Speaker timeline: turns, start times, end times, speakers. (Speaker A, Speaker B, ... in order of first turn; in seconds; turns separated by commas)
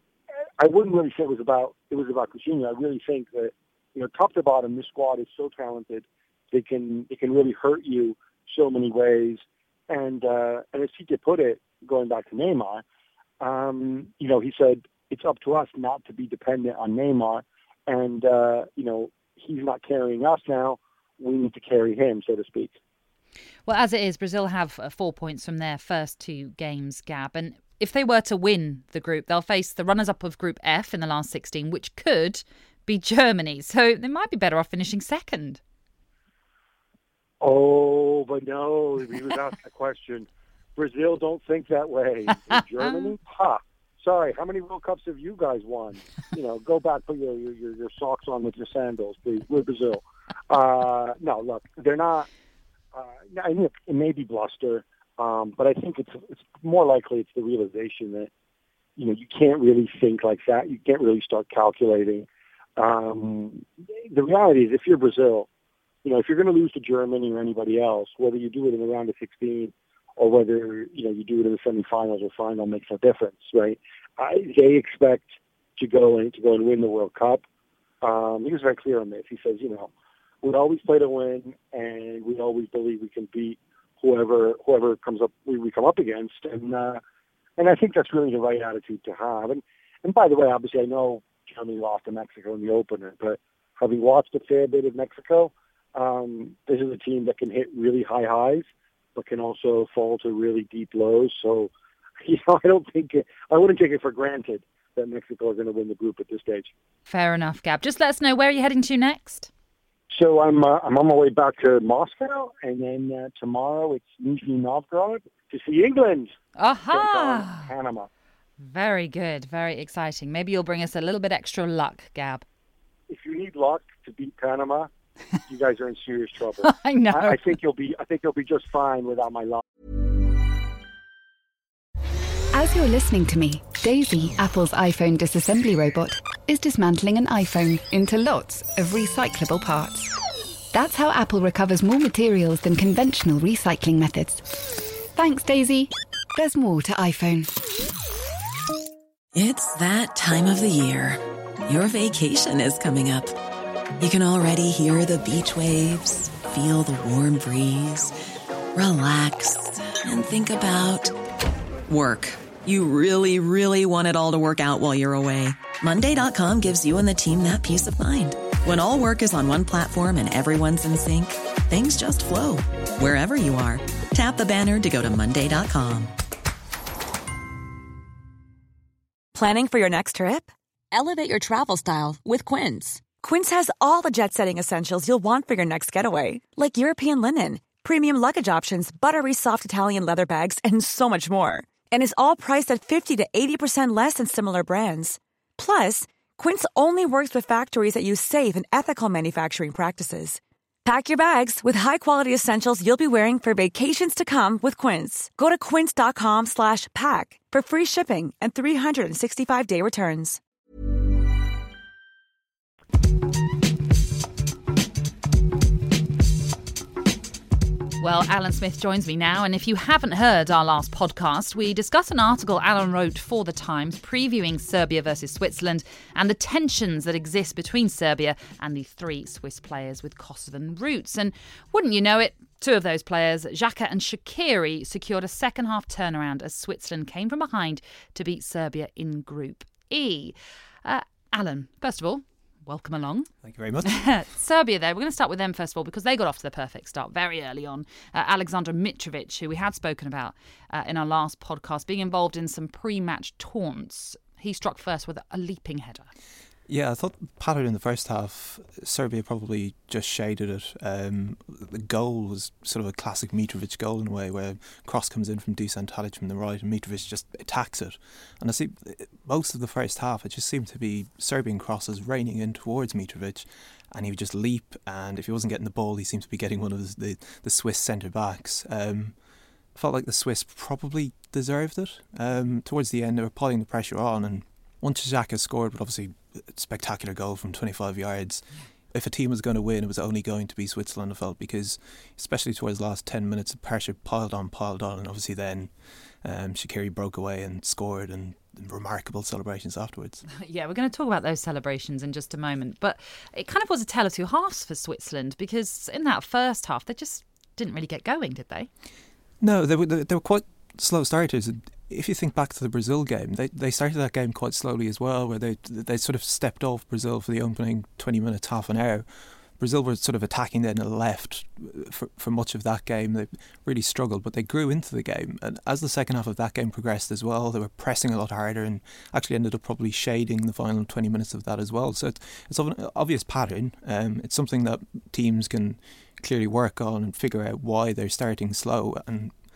Speaker A: 0.6-12.8, Speaker A: 13.4-22.8, Speaker B: 23.7-35.6, Speaker A: 37.4-52.3, Speaker A: 52.9-58.3, Speaker A: 59.0-65.5, Speaker A: 66.0-77.4, Speaker A: 78.0-79.9, Speaker A: 80.4-87.0, Speaker A: 87.6-101.7, Speaker A: 102.2-106.7, Speaker B: 107.1-109.5, Speaker A: 110.1-116.3, Speaker B: 116.6-117.7, Speaker A: 116.9-118.1, Speaker B: 118.6-122.4, Speaker A: 123.1-124.9, Speaker A: 125.5-129.6, Speaker B: 126.6-127.5, Speaker C: 132.5-140.1, Speaker C: 140.7-144.5, Speaker C: 145.1-147.5, Speaker D: 149.3-153.3, Speaker D: 154.0-158.1, Speaker D: 158.7-161.2, Speaker D: 161.9-176.1, Speaker E: 179.3-210.4, Speaker B: 218.0-243.3, Speaker F: 243.4-244.0, Speaker B: 243.8-256.1, Speaker F: 256.7-279.1, Speaker F: 279.7-300.2, Speaker B: 300.3-308.7, Speaker F: 309.4-319.1, Speaker F: 319.6-339.3